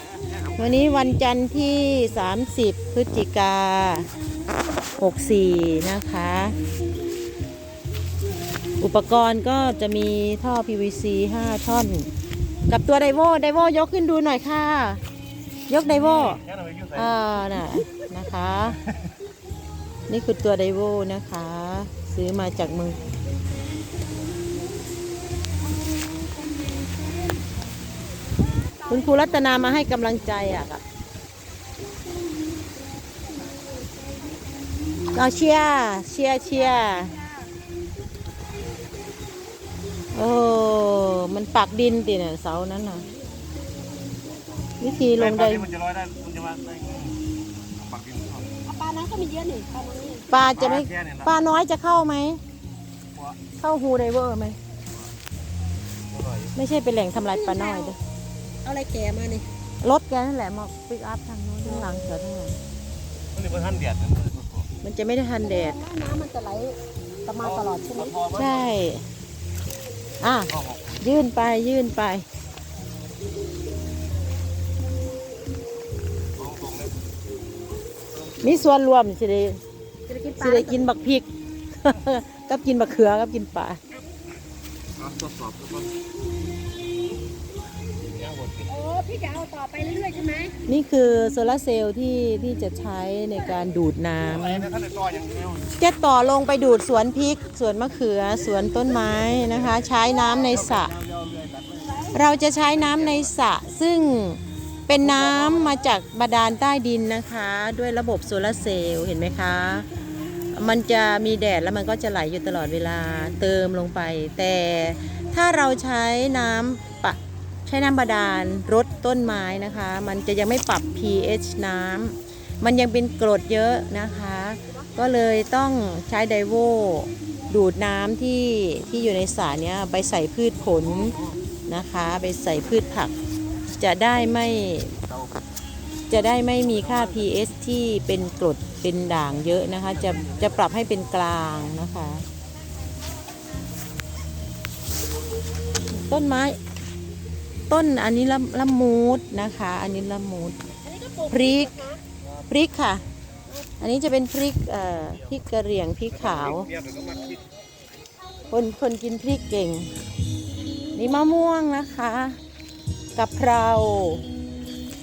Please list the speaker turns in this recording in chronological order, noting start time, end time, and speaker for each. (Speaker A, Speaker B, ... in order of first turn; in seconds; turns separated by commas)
Speaker A: 0.3-0.6, Speaker B: 0.6-4.1, Speaker B: 5.0-6.5, Speaker B: 8.8-12.1, Speaker B: 12.7-15.0, Speaker B: 15.7-16.4, Speaker A: 15.9-17.1, Speaker B: 16.9-18.8, Speaker B: 20.1-23.0, Speaker B: 28.9-30.8, Speaker B: 35.1-37.1, Speaker B: 40.1-43.0, Speaker B: 44.8-45.7, Speaker A: 45.2-47.2, Speaker A: 47.8-48.5, Speaker C: 48.6-50.3, Speaker B: 50.3-52.4, Speaker A: 50.6-51.3, Speaker B: 53.6-54.6, Speaker A: 56.1-56.5, Speaker B: 56.5-58.0, Speaker C: 57.2-58.0, Speaker C: 58.6-59.5, Speaker B: 59.8-62.5, Speaker A: 63.3-64.7, Speaker B: 64.8-65.8, Speaker C: 65.4-68.2, Speaker A: 67.4-68.7, Speaker B: 68.4-69.0, Speaker B: 70.2-72.2, Speaker A: 70.5-71.0, Speaker A: 76.4-77.0, Speaker B: 78.4-79.6, Speaker C: 80.1-80.9, Speaker B: 80.4-83.8, Speaker A: 85.0-85.9, Speaker A: 88.0-88.7, Speaker C: 88.7-90.6, Speaker B: 90.7-94.7, Speaker C: 93.4-93.7, Speaker A: 94.3-95.7, Speaker B: 95.8-100.9, Speaker A: 100.4-102.0, Speaker B: 102.1-109.9, Speaker A: 102.8-103.2, Speaker A: 105.0-105.5, Speaker B: 110.5-131.2, Speaker B: 131.7-133.1, Speaker B: 133.7-134.9, Speaker B: 136.1-142.2, Speaker A: 140.1-140.4, Speaker B: 145.9-146.6, Speaker B: 147.7-150.6, Speaker C: 150.8-152.0, Speaker B: 151.3-151.9, Speaker B: 152.5-153.0, Speaker B: 153.8-156.7, Speaker A: 156.2-157.4, Speaker B: 158.5-159.9, Speaker B: 160.9-162.4, Speaker B: 163.2-164.2